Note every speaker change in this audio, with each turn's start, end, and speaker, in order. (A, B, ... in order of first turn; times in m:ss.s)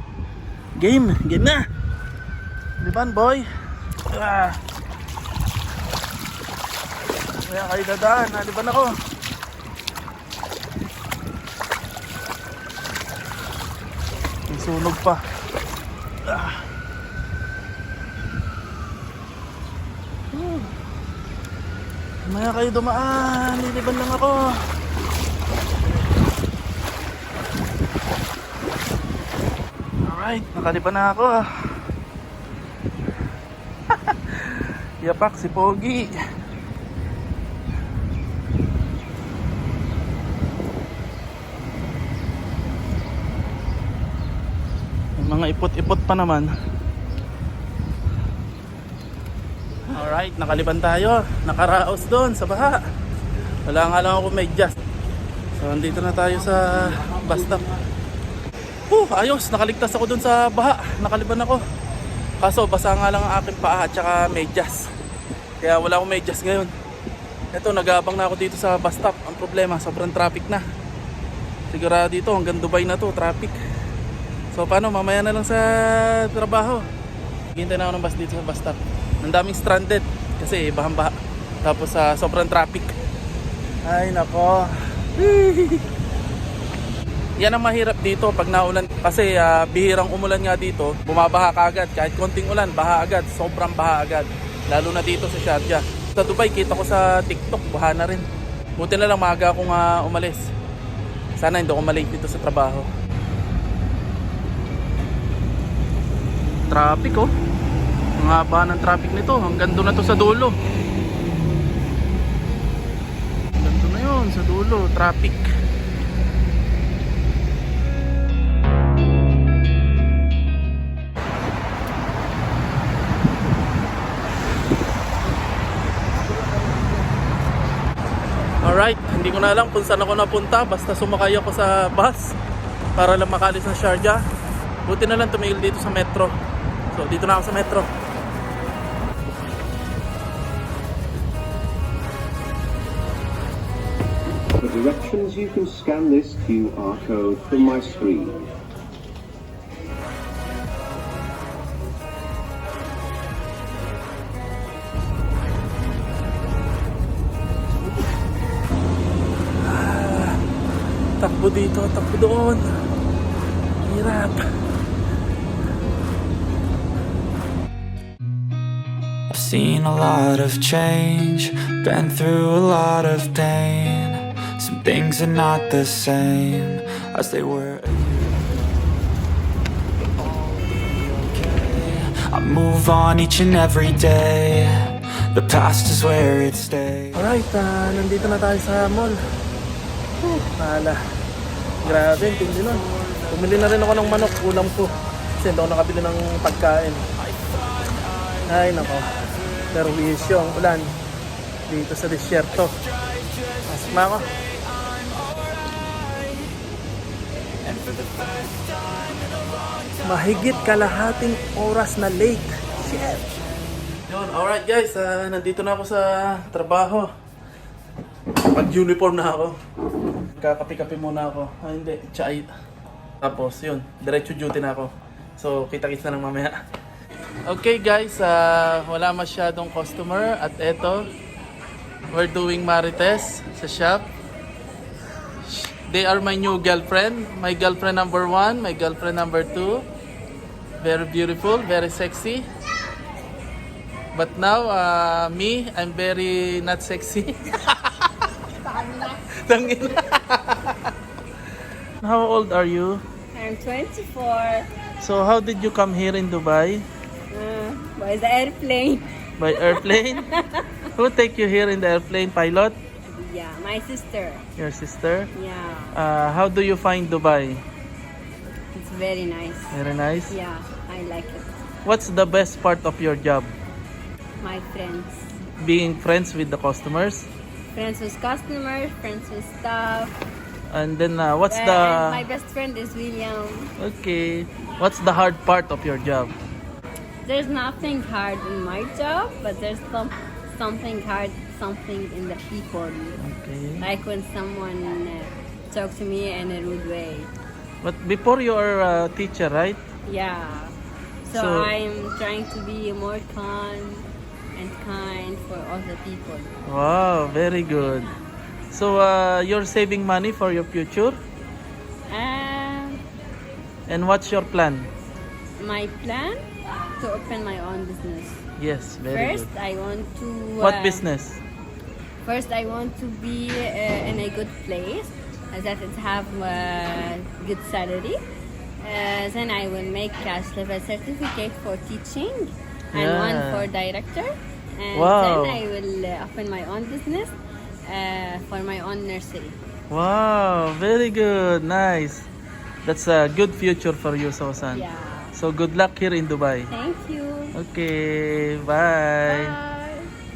0:00.8-0:01.6 A
0:02.8-0:03.5 A
0:04.1-0:04.6 A
0:07.4-0:08.9 A
0:14.5-0:15.2 A
0:16.2-0:16.6 A
0:20.3-0:20.7 A
0:22.3-0:24.5 A
0:30.0-0:31.4 A
0:33.9-0:36.1 A
0:45.2-0:46.5 A
0:49.9-0:52.8 A
0:53.7-0:54.8 A
0:55.6-0:57.7 A
0:58.9-1:01.6 A
1:02.4-1:04.8 A
1:05.6-1:06.7 A
1:07.5-1:10.6 A
1:11.7-1:13.6 A
1:14.5-1:16.8 A
1:17.5-1:22.9 A
1:23.8-1:25.8 A
1:27.4-1:38.2 A
1:38.8-1:40.5 A
1:41.4-1:42.9 A
1:46.7-1:47.3 A
1:48.2-1:50.5 A
1:53.5-1:55.5 A
2:08.6-2:12.3 A
2:13.0-2:14.2 A
2:14.9-2:16.3 A
2:16.9-2:17.9 A
2:24.6-2:28.4 B
2:39.6-2:40.4 A
2:41.2-2:42.7 A
2:43.8-2:44.4 A
2:49.3-2:59.0 C
3:00.2-3:07.2 C
3:07.1-3:09.2 A
3:10.2-3:11.0 A
3:11.8-3:17.0 A
3:18.5-3:19.1 A
3:19.7-3:20.9 A
3:21.7-3:22.8 A
3:23.2-3:23.9 C
3:23.8-3:24.3 A
3:24.4-3:26.4 C
3:27.6-3:30.0 C
3:30.0-3:33.2 A
3:32.9-3:33.6 C
3:34.1-3:37.1 A
3:38.4-3:39.6 A
3:40.3-3:42.5 A
3:43.2-3:46.6 A
3:47.5-3:51.0 A
3:52.1-3:54.1 A
3:55.5-3:59.8 A
4:00.8-4:02.4 A
4:04.1-4:08.1 A
4:08.6-4:09.4 D
4:09.4-4:10.9 A
4:12.0-4:13.0 A
4:13.3-4:14.7 D
4:15.0-4:16.8 A
4:17.3-4:20.7 D
4:19.4-4:20.2 A
4:21.0-4:22.8 A
4:23.1-4:24.4 D
4:24.6-4:25.3 A
4:25.4-4:26.0 D
4:25.9-4:27.6 A
4:28.8-4:29.8 D
4:29.7-4:30.4 A
4:30.3-4:31.6 D
4:31.9-4:33.5 A
4:34.4-4:35.3 D
4:35.6-4:37.3 A
4:37.7-4:40.2 D
4:40.7-4:42.2 A
4:41.5-4:43.7 D
4:43.8-4:46.3 A
4:47.2-4:53.2 D
4:53.2-4:53.9 A
4:53.8-4:57.3 D
4:57.8-4:59.8 A
5:00.1-5:00.8 D
5:01.3-5:06.5 D
5:01.3-5:01.7 A
5:06.7-5:08.1 A
5:08.7-5:11.2 A
5:12.1-5:13.0 D
5:13.9-5:14.9 A
5:15.6-5:16.4 D
5:17.0-5:18.4 D
5:18.6-5:19.5 A
5:19.1-5:21.1 D
5:20.6-5:21.4 A
5:22.2-5:28.2 D
5:28.8-5:37.3 D
5:33.0-5:33.7 A
5:34.9-5:35.6 A
5:37.9-5:39.6 D
5:39.9-5:42.3 A
5:42.8-5:46.7 A
5:44.7-5:45.3 D
5:46.7-5:47.6 D
5:47.6-5:49.6 A
5:49.3-5:50.1 D